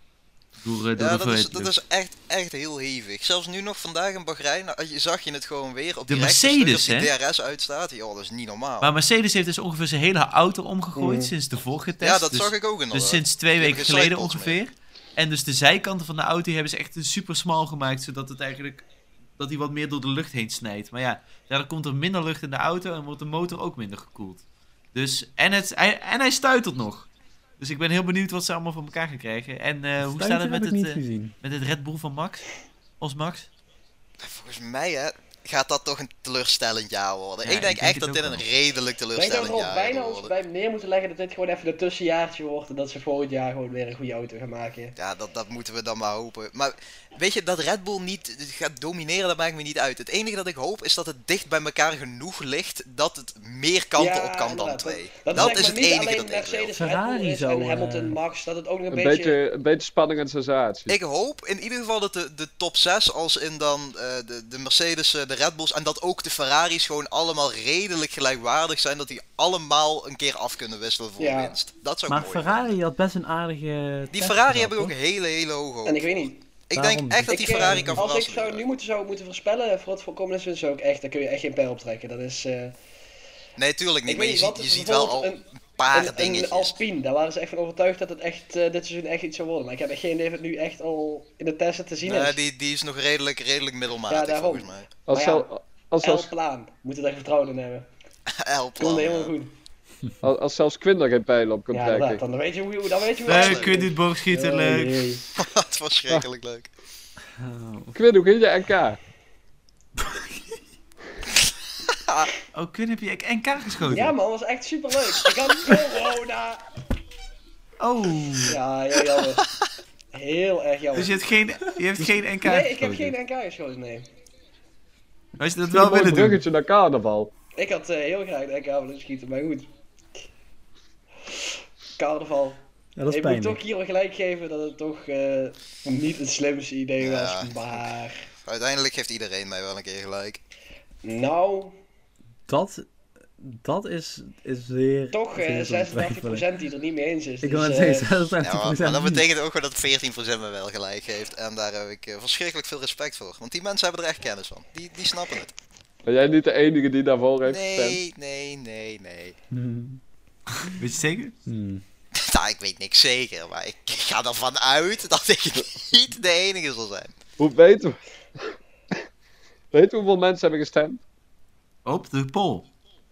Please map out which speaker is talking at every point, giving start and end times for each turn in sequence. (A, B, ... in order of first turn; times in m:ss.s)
0:00.6-0:01.7 A
0:01.0-0:08.9 B
0:06.1-0:07.1 A
0:08.8-0:18.8 A
0:11.0-0:11.3 C
0:12.0-0:14.6 B
0:19.4-0:32.4 A
0:30.0-0:31.3 D
0:33.0-0:33.5 A
0:34.2-0:40.3 B
0:37.4-0:38.4 A
0:39.1-0:45.0 C
0:45.0-0:56.8 B
0:54.0-0:59.4 C
0:56.7-0:58.2 D
0:58.9-1:00.9 E
1:00.9-1:12.7 B
1:11.2-1:11.6 C
1:12.1-1:14.9 D
1:14.1-1:18.6 B
1:15.8-1:16.4 C
1:16.7-1:18.0 D
1:17.3-1:22.8 C
1:23.6-1:26.8 B
1:24.0-1:32.4 C
1:32.0-1:34.9 B
1:34.1-1:35.5 C
1:35.1-1:36.3 E
1:36.0-1:37.9 C
1:38.3-1:39.3 B
1:38.8-1:39.5 C
1:40.2-1:42.2 E
1:41.7-1:45.3 C
1:43.2-1:45.0 A
1:43.3-1:43.7 B
1:45.4-1:46.7 B
1:47.4-1:48.0 D
1:47.9-1:49.0 E
1:50.0-1:50.4 D
1:51.9-1:52.3 B
1:52.5-1:54.1 A
1:53.8-1:56.7 C
1:57.8-1:58.6 A
1:58.4-1:59.4 C
2:00.1-2:01.2 C
2:00.9-2:02.7 A
2:02.4-2:04.1 C
2:02.7-2:03.1 E
2:05.4-2:06.4 A
2:05.7-2:07.3 E
2:07.6-2:09.7 C
2:12.0-2:18.3 C
2:13.0-2:13.6 D
2:17.0-2:17.8 B
2:18.4-2:20.4 B
2:21.0-2:21.8 C
2:22.5-2:22.8 D
2:23.4-2:26.5 D
2:25.1-2:28.1 C
2:27.4-2:29.2 D
2:28.4-2:35.5 B
2:36.0-2:38.0 E
2:37.4-2:39.3 B
2:39.5-2:40.0 D
2:40.6-2:41.3 A
2:41.4-2:41.8 D
2:42.1-2:47.1 B
2:47.4-2:48.6 E
2:49.7-2:51.0 E
2:51.8-2:52.7 A